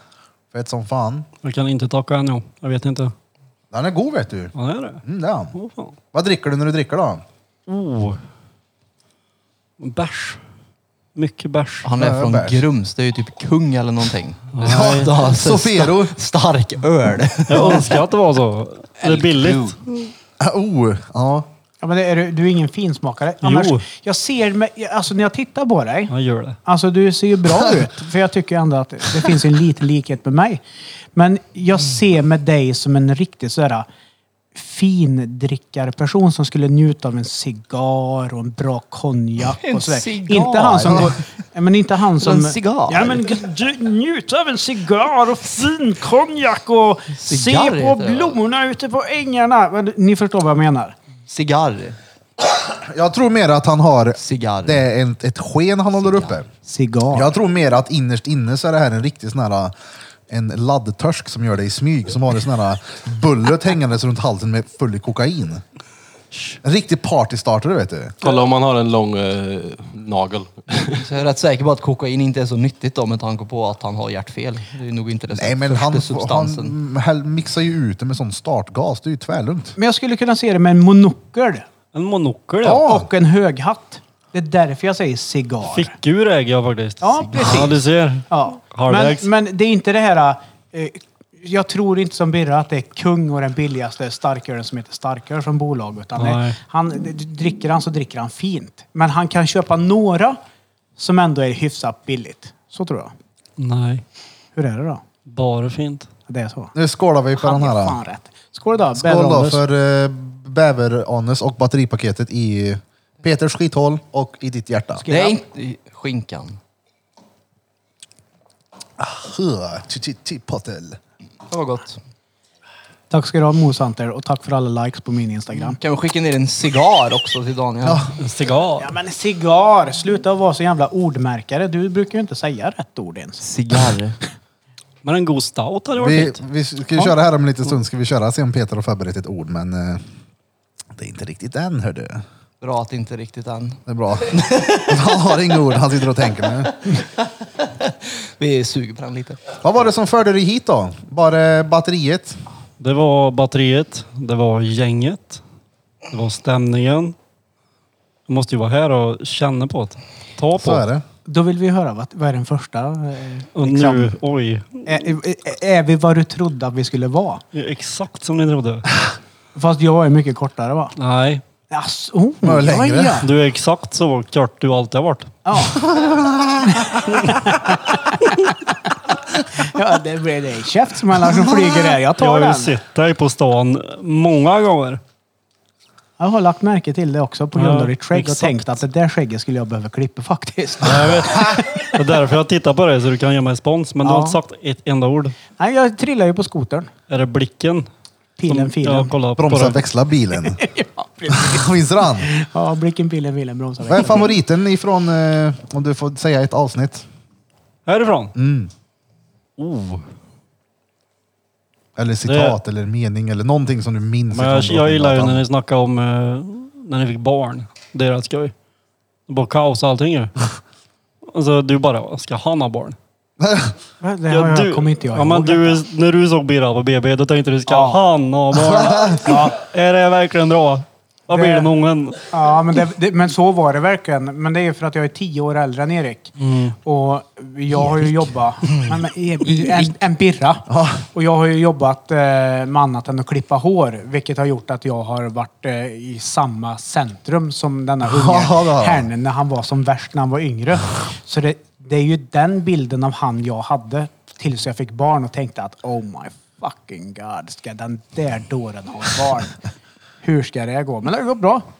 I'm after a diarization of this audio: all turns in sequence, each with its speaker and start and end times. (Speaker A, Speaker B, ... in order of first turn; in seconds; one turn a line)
Speaker A: 0.5-1.3
Speaker B: 1.4-3.1
Speaker A: 3.7-5.5
Speaker B: 4.5-5.0
Speaker B: 5.5-5.9
Speaker A: 6.1-7.2
Speaker B: 7.7-8.2
Speaker B: 9.8-10.4
Speaker B: 11.2-11.9
Speaker C: 11.8-18.0
Speaker A: 11.9-12.7
Speaker B: 14.5-15.1
Speaker A: 14.6-16.1
Speaker B: 17.5-20.1
Speaker D: 19.1-19.7
Speaker A: 20.4-21.5
Speaker E: 21.8-26.1
Speaker B: 23.4-23.8
Speaker B: 26.1-26.6
Speaker E: 26.6-30.6
Speaker E: 31.1-33.9
Speaker E: 34.5-51.0
Speaker C: 39.5-41.2
Speaker C: 42.2-43.2
Speaker C: 47.1-48.4
Speaker C: 51.3-52.0
Speaker A: 52.8-56.5
Speaker C: 54.2-54.8
Speaker C: 56.0-56.4
Speaker E: 56.6-57.3
Speaker A: 57.1-59.8
Speaker A: 60.3-65.6
Speaker A: 66.6-68.2
Speaker D: 68.2-71.0
Speaker C: 70.8-76.7
Speaker A: 75.3-79.8
Speaker E: 79.8-81.7
Speaker B: 81.9-82.8
Speaker A: 82.6-83.1
Speaker E: 82.8-86.0
Speaker B: 85.7-89.3
Speaker E: 87.0-87.8
Speaker E: 88.3-100.4
Speaker B: 96.2-96.6
Speaker E: 101.0-103.1
Speaker B: 103.6-104.0
Speaker E: 104.6-105.0
Speaker B: 105.3-106.1
Speaker E: 106.3-106.7
Speaker A: 106.8-108.0
Speaker E: 107.4-109.6
Speaker A: 109.0-115.0
Speaker E: 115.0-115.4
Speaker C: 115.1-116.6
Speaker A: 119.0-121.0
Speaker C: 121.5-122.0
Speaker E: 123.1-125.8
Speaker C: 125.7-128.1
Speaker A: 127.8-128.1
Speaker B: 128.2-128.9
Speaker E: 128.8-133.4
Speaker C: 133.4-134.2
Speaker B: 135.0-136.4
Speaker A: 136.0-140.1
Speaker A: 140.9-142.2
Speaker C: 142.6-145.3
Speaker A: 143.9-146.7
Speaker C: 146.9-149.6
Speaker A: 149.6-152.4
Speaker B: 152.8-155.4
Speaker B: 156.1-157.2
Speaker B: 158.3-160.8
Speaker A: 160.6-161.1
Speaker E: 161.3-164.1
Speaker B: 163.6-164.8
Speaker E: 164.9-167.4
Speaker B: 167.5-168.9
Speaker E: 169.6-170.9
Speaker B: 171.0-171.4
Speaker E: 171.7-173.3
Speaker A: 172.4-173.2
Speaker B: 173.2-175.3
Speaker E: 175.4-175.8
Speaker A: 175.8-177.0
Speaker E: 176.7-178.7
Speaker E: 179.5-182.7
Speaker B: 182.2-185.0
Speaker E: 186.2-191.9
Speaker B: 187.6-188.8
Speaker B: 190.8-195.4
Speaker E: 194.0-194.4
Speaker E: 195.6-196.9
Speaker B: 197.1-197.9
Speaker E: 198.4-199.1
Speaker B: 198.5-199.8
Speaker A: 199.4-200.6
Speaker E: 200.4-204.3
Speaker A: 201.3-202.3
Speaker A: 203.9-207.1
Speaker B: 207.9-208.3
Speaker A: 208.4-208.7
Speaker B: 209.6-210.1
Speaker A: 212.0-215.4
Speaker B: 212.2-212.6
Speaker B: 214.3-218.5
Speaker B: 219.3-220.3
Speaker B: 221.3-223.0
Speaker A: 223.4-223.8
Speaker E: 224.0-225.8
Speaker B: 224.3-232.3
Speaker E: 227.7-228.0
Speaker A: 228.6-229.2
Speaker E: 229.2-229.6
Speaker E: 231.3-231.7
Speaker E: 232.3-236.3
Speaker B: 236.4-236.8
Speaker E: 236.8-259.6
Speaker C: 237.8-238.1
Speaker C: 238.7-239.9
Speaker A: 240.7-241.1
Speaker A: 248.0-249.1
Speaker E: 260.2-261.6